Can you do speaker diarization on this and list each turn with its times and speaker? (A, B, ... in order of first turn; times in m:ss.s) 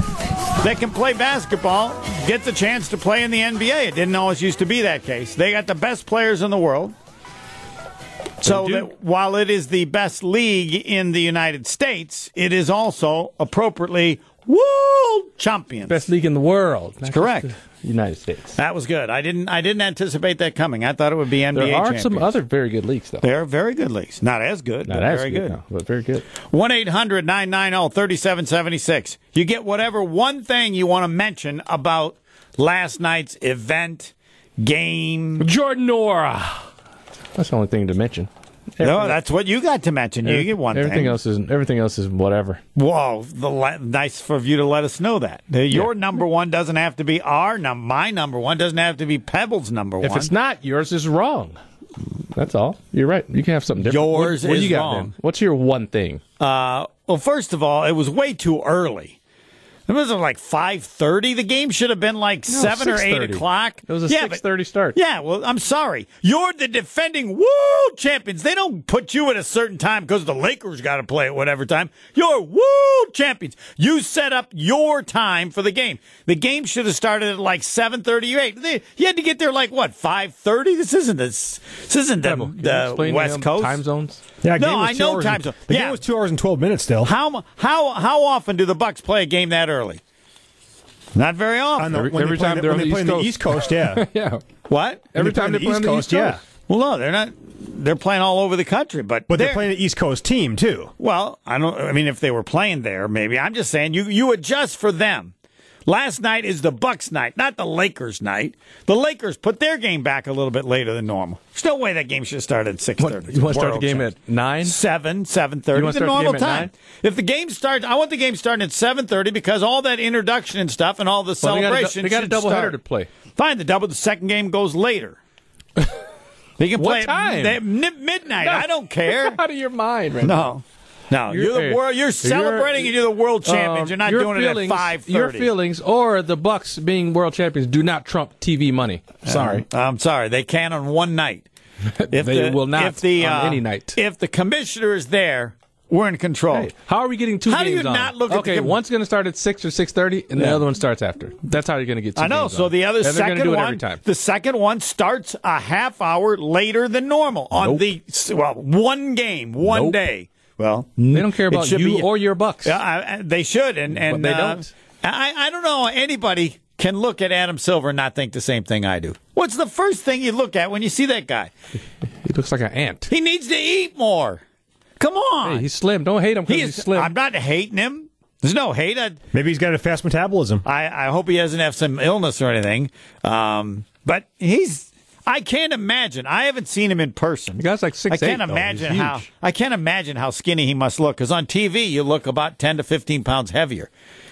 0:00.6-0:07.0 A
0:08.4-0:16.1 A
0:08.4-0:08.9 B
0:15.9-0:18.6 B
0:17.1-0:17.5 A
0:18.6-0:22.4 A
0:21.5-0:23.2 B
0:23.2-0:25.6 A
0:24.9-0:26.3 B
0:26.4-0:35.5 A
0:35.4-0:36.7 B
0:37.4-0:39.2 B
0:38.8-0:41.2 A
0:40.2-0:42.6 B
0:42.8-0:50.3 A
0:50.0-0:51.6 B
0:52.4-0:56.2 B
0:53.8-0:55.1 A
0:56.4-0:59.2 A
0:59.9-1:04.4 A
1:02.5-1:05.0 B
1:04.9-1:23.8 A
1:22.2-1:24.2 B
1:24.4-1:27.1 C
1:24.6-1:26.0 A
1:27.0-1:30.0 A
1:31.2-1:32.0 A
1:31.8-1:34.1 C
1:31.9-1:34.4 B
1:34.7-1:35.1 A
1:35.1-1:36.4 B
1:35.2-1:36.4 C
1:36.7-1:39.7 A
1:39.3-1:40.9 C
1:41.0-1:45.3 A
1:45.9-2:02.8 A
1:53.0-1:54.8 B
1:55.7-1:56.7 B
2:01.4-2:03.1 B
2:03.4-2:05.2 A
2:06.6-2:09.4 A
2:06.8-2:07.6 B
2:08.4-2:10.5 B
2:10.2-2:15.5 A
2:11.3-2:12.9 B
2:13.4-2:19.6 B
2:19.2-2:21.5 A
2:22.0-2:24.0 B
2:22.1-2:26.7 A
2:26.5-2:34.0 B
2:27.5-2:28.8 A
2:30.4-2:30.6 A
2:32.2-2:42.1 A
2:37.6-2:37.8 B
2:39.6-2:40.0 B
2:41.1-2:42.8 B
2:42.6-2:51.5 A
2:43.9-2:44.7 B
2:52.2-2:53.1 B
2:53.1-2:54.4 A
2:55.0-2:55.7 A
2:55.4-2:57.1 B
2:56.5-2:59.2 A
2:59.3-3:00.6 C
3:00.6-3:13.9 A
3:07.6-3:09.2 B